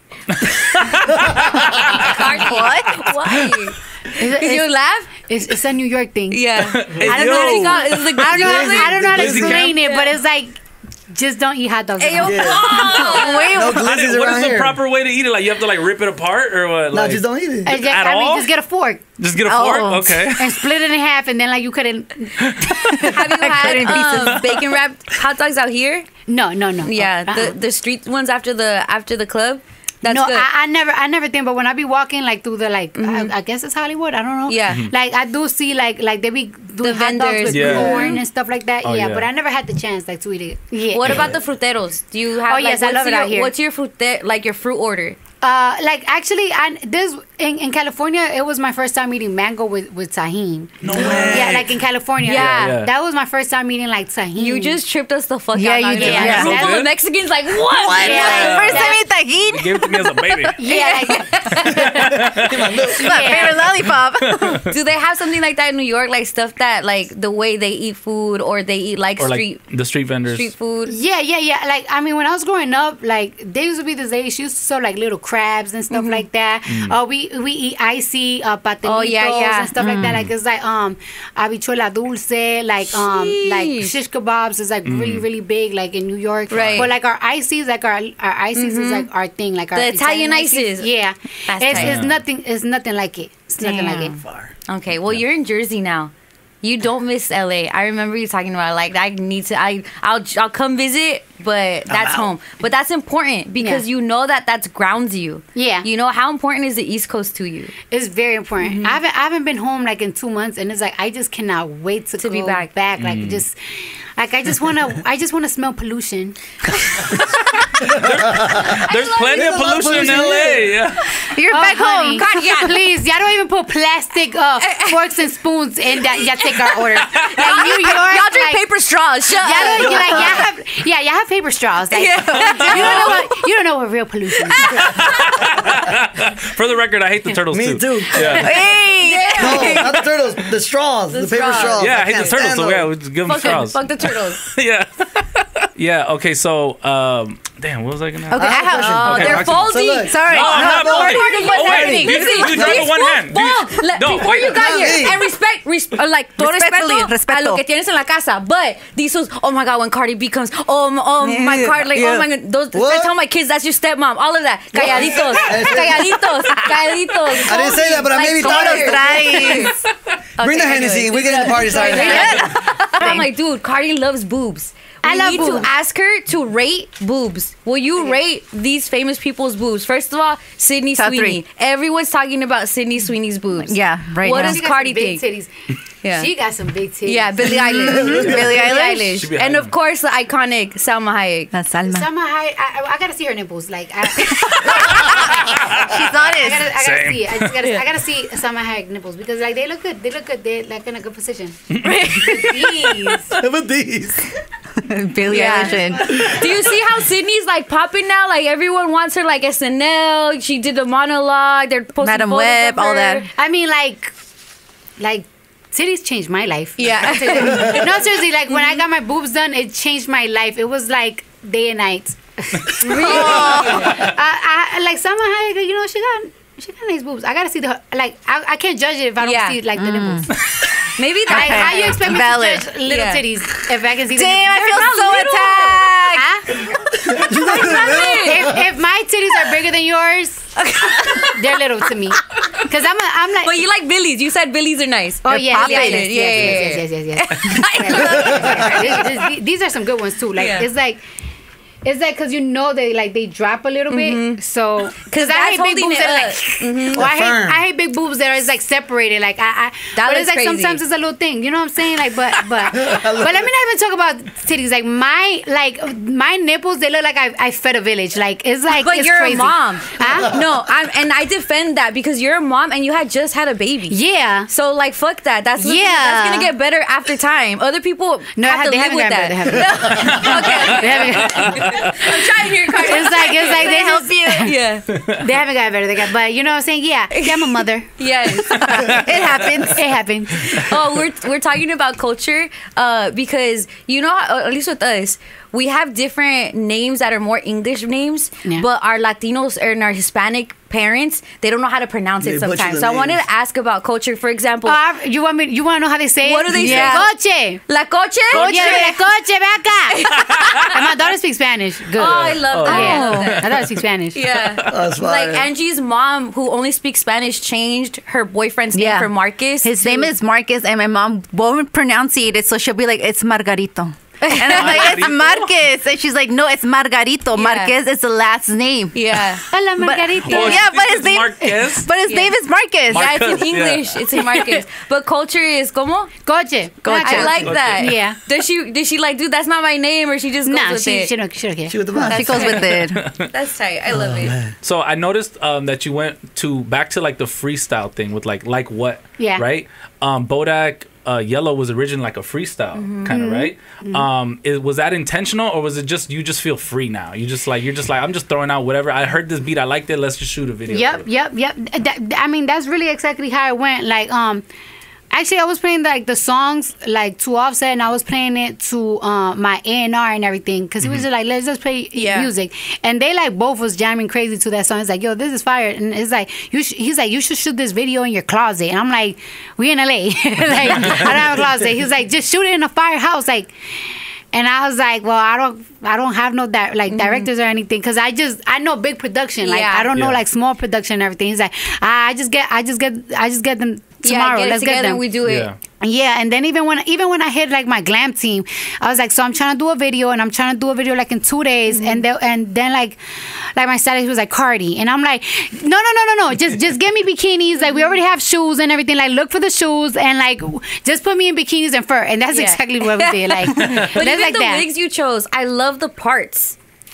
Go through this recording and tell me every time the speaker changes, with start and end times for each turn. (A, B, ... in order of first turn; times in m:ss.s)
0:00.4-0:02.2 A
0:01.8-0:05.1 B
0:02.4-0:03.0 C
0:02.9-0:03.5 A
0:04.1-0:06.4 D
0:06.3-0:10.1 B
0:06.6-0:08.4 A
0:07.0-0:10.6 D
0:08.3-0:09.7 E
0:09.0-0:09.8 A
0:11.1-0:13.4 D
0:12.0-0:13.6 B
0:12.2-0:14.8 E
0:13.0-0:13.8 C
0:13.6-0:18.5 A
0:16.9-0:17.8 E
0:17.6-0:19.0 D
0:19.2-0:20.6 A
0:19.4-0:20.2 C
0:20.4-0:23.1 D
0:22.4-0:22.8 A
0:22.8-0:24.7 C
0:23.0-0:26.1 B
0:26.3-0:27.5 D
0:26.8-0:30.5 B
0:30.0-0:41.3 D
0:33.0-0:33.3 B
0:34.5-0:34.8 B
0:34.7-0:34.9 A
0:36.8-0:38.2 B
0:37.5-0:38.2 A
0:38.8-0:39.3 A
0:40.9-0:45.2 B
0:41.0-0:41.4 A
0:42.5-0:43.5 D
0:45.4-0:54.8 D
0:50.8-0:52.9 A
0:51.1-0:51.3 B
0:52.2-0:52.8 B
0:54.4-0:58.9 B
0:55.5-0:56.6 C
0:56.0-0:56.8 D
0:56.0-0:56.9 A
0:57.8-0:58.2 E
0:57.9-1:00.5 C
0:57.9-0:59.0 D
0:58.1-1:00.6 A
1:00.6-1:01.5 D
1:00.6-1:02.2 B
1:01.7-1:03.4 E
1:01.7-1:02.7 A
1:03.0-1:04.6 C
1:03.0-1:03.6 D
1:03.1-1:03.4 B
1:03.6-1:04.7 A
1:04.7-1:09.6 B
1:09.2-1:10.5 A
1:10.3-1:11.0 B
1:10.9-1:34.2 D
1:15.9-1:16.2 B
1:16.7-1:17.0 A
1:18.8-1:19.7 B
1:19.8-1:20.2 C
1:20.0-1:20.3 A
1:22.9-1:24.0 B
1:24.8-1:25.2 A
1:26.5-1:26.9 B
1:26.5-1:26.9 A
1:28.6-1:29.1 B
1:29.7-1:30.9 B
1:31.4-1:32.0 B
1:31.7-1:32.2 A
1:33.6-1:36.1 B
1:34.2-1:34.5 E
1:36.6-1:47.7 B
1:41.9-1:42.3 E
1:45.5-1:45.9 D
1:47.9-1:56.4 D
1:48.6-1:49.0 B
1:52.2-1:52.7 B
1:53.0-1:53.4 A
1:56.7-1:57.8 B
1:57.7-2:01.2 A
1:57.8-2:00.8 E
1:58.6-2:00.4 B
2:01.2-2:02.3 C
2:01.5-2:08.6 D
2:01.6-2:02.8 B
2:04.6-2:05.0 B
2:06.2-2:10.4 B
2:09.3-2:14.9 D
2:09.6-2:10.4 E
2:11.9-2:13.5 B
2:12.6-2:13.1 A
2:14.4-2:15.5 B
2:14.8-2:18.5 A
2:17.5-2:18.5 E
2:18.2-2:20.0 B
2:18.4-2:19.9 C
2:19.3-2:22.9 E
2:21.1-2:22.4 B
2:21.8-2:34.7 A
2:23.2-2:24.4 B
2:28.3-2:29.4 C
2:28.3-2:32.9 E
2:28.5-2:49.8 B
2:30.0-2:31.0 C
2:31.2-2:32.5 D
2:34.3-2:35.2 E
2:36.4-2:37.6 C
2:41.2-2:42.3 C
2:42.7-2:43.1 E
2:44.8-2:46.3 E
2:44.9-2:45.4 A
2:46.6-2:46.9 C
2:47.4-2:49.6 E
2:48.4-2:49.8 C
2:50.4-3:05.2 B
2:50.4-2:52.4 E
2:51.9-2:53.3 C
2:55.0-2:55.7 D
3:01.0-3:01.4 C
3:03.6-3:04.6 C
3:04.2-3:05.5 D
3:06.0-3:06.3 B
3:06.1-3:07.8 D
3:07.0-3:11.5 B
3:07.4-3:09.2 C
3:08.0-3:09.7 A
3:11.5-3:12.1 C
3:11.8-3:21.6 D
3:14.6-3:16.7 C
3:14.6-3:15.1 B
3:15.1-3:15.9 A
3:16.6-3:17.6 A
3:21.7-3:22.0 A
3:21.8-3:23.2 B
3:22.2-3:23.4 D
3:23.3-3:24.4 E
3:24.8-3:26.1 C
3:25.3-3:26.8 D
3:25.3-3:33.3 B
3:32.0-3:33.2 C
3:33.3-3:34.1 D
3:35.0-3:50.3 D
3:36.8-3:38.8 B
3:42.8-3:43.9 B
3:42.9-3:44.0 C
3:43.5-3:44.1 A
3:49.2-3:49.6 B
3:49.7-3:50.3 C
3:50.8-3:52.1 B
3:51.3-3:52.7 C
3:51.3-3:55.0 D
3:52.8-3:53.2 B
3:54.1-3:56.3 C
3:54.5-3:55.9 B
3:56.1-3:56.6 D
3:57.0-3:58.6 E
3:57.4-3:58.6 B
3:57.6-4:03.6 D
4:00.6-4:01.6 B
4:02.4-4:02.6 B
4:03.4-4:09.2 B
4:05.2-4:11.0 D
4:05.3-4:06.5 C
4:07.4-4:09.2 C
4:08.2-4:08.5 E
4:10.4-4:10.7 B
4:11.8-4:30.4 D
4:13.9-4:14.4 B
4:15.0-4:17.1 B
4:16.9-4:17.6 E
4:19.9-4:20.8 B
4:22.7-4:23.5 E
4:28.7-4:44.9 B
4:33.9-4:34.5 D
4:35.6-4:36.5 D
4:38.3-4:42.0 D
4:39.6-4:40.2 E
4:40.0-4:42.1 A
4:42.7-4:44.5 D
4:43.1-4:44.5 C
4:45.0-4:48.8 D
4:47.1-4:49.1 B
4:48.5-4:49.8 C
4:48.9-4:49.6 A
4:49.7-4:50.7 D
4:50.4-5:04.8 B
5:02.2-5:03.2 E
5:04.6-5:07.6 D
5:06.2-5:07.2 B
5:06.5-5:07.1 C
5:07.7-5:09.0 B
5:08.3-5:14.2 D
5:08.3-5:08.9 A
5:09.9-5:10.8 B
5:11.9-5:13.5 B
5:12.5-5:13.8 A
5:12.6-5:13.3 C
5:14.1-5:20.1 B
5:14.7-5:15.5 E
5:18.7-5:19.1 C
5:19.6-5:29.2 C
5:24.2-5:25.2 B
5:24.4-5:25.5 A
5:27.4-5:27.7 B
5:28.9-5:29.4 B
5:29.5-5:30.6 D
5:29.8-5:33.1 C
5:30.2-5:31.9 A
5:32.1-5:32.3 B
5:32.9-5:34.0 A
5:32.9-5:36.1 B
5:36.2-5:38.2 D
5:36.8-5:37.4 C
5:37.0-5:41.1 B
5:37.4-5:38.0 A
5:40.4-5:42.4 D
5:41.7-5:42.7 E
5:42.0-5:43.0 C
5:42.4-5:43.3 A
5:43.2-5:44.4 B
5:43.9-5:44.5 E
5:44.6-6:01.0 A
5:49.2-5:49.4 D
5:52.7-5:53.1 B
5:53.1-5:54.0 D
6:00.7-6:04.4 D
6:05.1-6:35.0 D
6:11.9-6:12.3 B
6:26.9-6:27.3 B
6:29.4-6:29.9 B
6:29.9-6:30.2 A
6:34.0-6:35.5 B
6:35.2-6:35.6 A
6:35.8-6:54.6 D
6:41.7-6:42.0 B
6:47.6-6:47.9 B
6:52.3-6:56.6 B